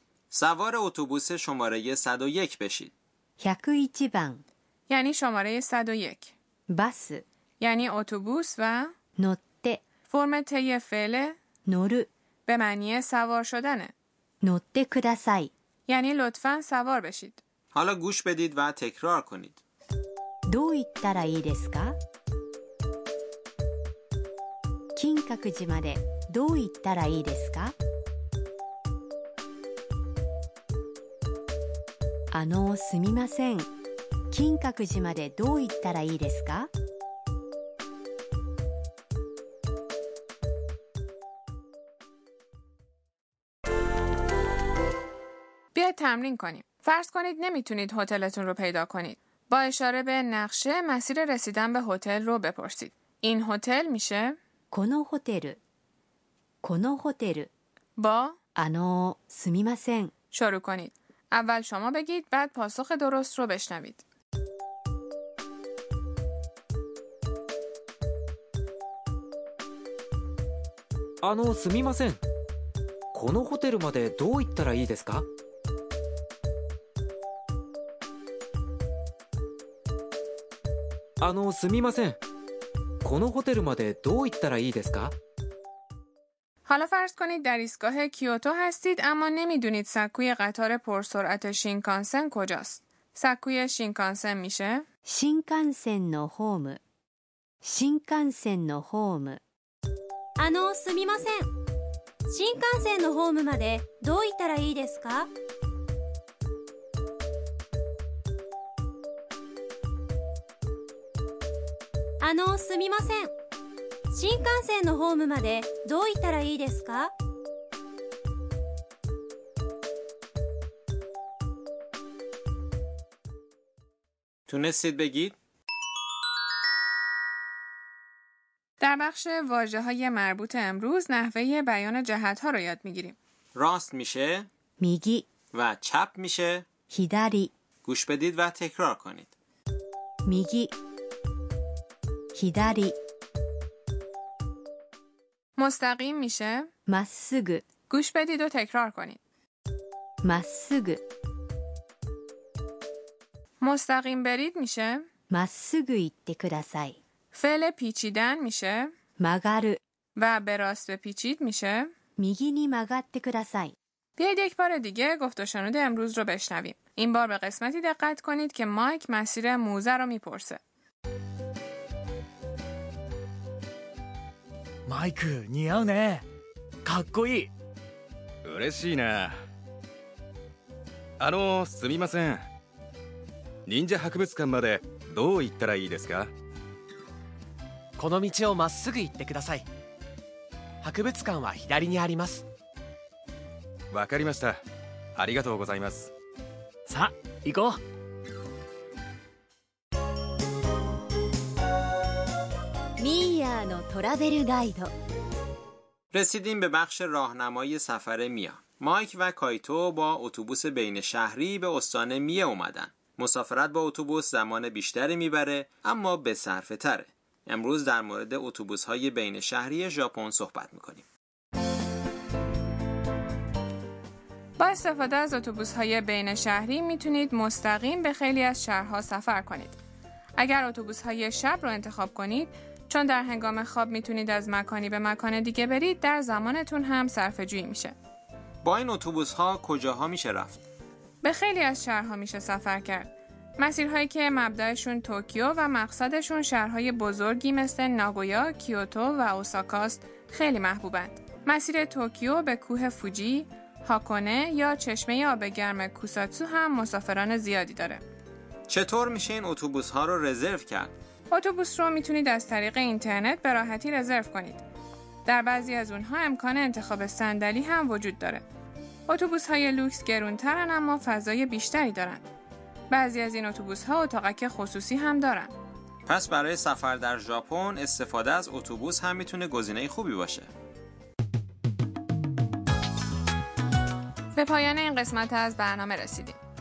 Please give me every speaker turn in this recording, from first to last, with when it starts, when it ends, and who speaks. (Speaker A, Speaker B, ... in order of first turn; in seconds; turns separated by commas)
Speaker A: 0.3-2.9, Speaker B: 3.4-4.4, Speaker C: 4.9-6.3, Speaker B: 6.7-7.2, Speaker C: 7.6-8.9, Speaker B: 9.2-9.8, Speaker C: 10.1-11.4, Speaker B: 11.7-12.1, Speaker C: 12.4-13.9, Speaker B: 14.4-15.5, Speaker C: 15.9-17.4, Speaker A: 17.7-19.6, Speaker B: 20.5-22.0, Speaker B: 24.9-27.7, Speaker B: 32.3-33.7, Speaker B: 34.3-36.7, Speaker C: 45.7-54.4, Speaker B: 54.7-55.6, Speaker B: 56.6-57.5, Speaker C: 58.0-58.4, Speaker B: 58.5-60.1, Speaker C: 60.3-64.0, Speaker D: 71.2-72.2, Speaker D: 73.1-75.2, Speaker D: 81.2-82.2, Speaker D: 83.0-85.1, Speaker C: 86.7-94.8, Speaker B: 95.0-96.8, Speaker B: 97.6-99.4, Speaker E: 100.4-101.5, Speaker E: 102.3-105.3, Speaker E: 112.2-113.3, Speaker E: 114.1-117.1, Speaker A: 124.5-125.4, Speaker C: 128.8-133.2, Speaker A: 133.5-134.5, Speaker B: 134.8-135.3, Speaker A: 135.5-136.7, Speaker B: 136.9-137.5, Speaker A: 137.8-139.3, Speaker B: 140.2-140.7, Speaker B: 142.3-142.9, Speaker C: 145.6-146.7, Speaker B: 146.9-147.6, Speaker C: 147.9-149.2, Speaker B: 150.2-151.0, Speaker C: 153.6-155.0, Speaker B: 155.3-157.0, Speaker C: 157.3-158.9, Speaker B: 159.2-159.8, Speaker C: 160.2-161.9, Speaker B: 162.2-163.7, Speaker C: 164.2-170.6, Speaker F: 174.9-176.2, Speaker F: 176.8-177.5, Speaker G: 178.4-179.3, Speaker G: 181.2-182.4, Speaker G: 183.7-186.3, Speaker H: 188.0-189.6, Speaker H: 190.8-192.4, Speaker G: 193.9-194.6, Speaker G: 195.2-196.1, Speaker F: 196.9-197.8, Speaker B: 203.0-204.9, Speaker A: 206.1-221.0, Speaker C: 224.6-229.8, Speaker C: 230.4-237.9, Speaker A: 238.6-240.6, Speaker C: 241.2-258.0, Speaker A: 258.7-260.9, Speaker C: 261.3-264.6, Speaker C: 265.2-268.4, Speaker C: 269.1-272.2, Speaker C: 272.9-275.5, Speaker A: 276.1-280.5, Speaker C: 284.3-286.4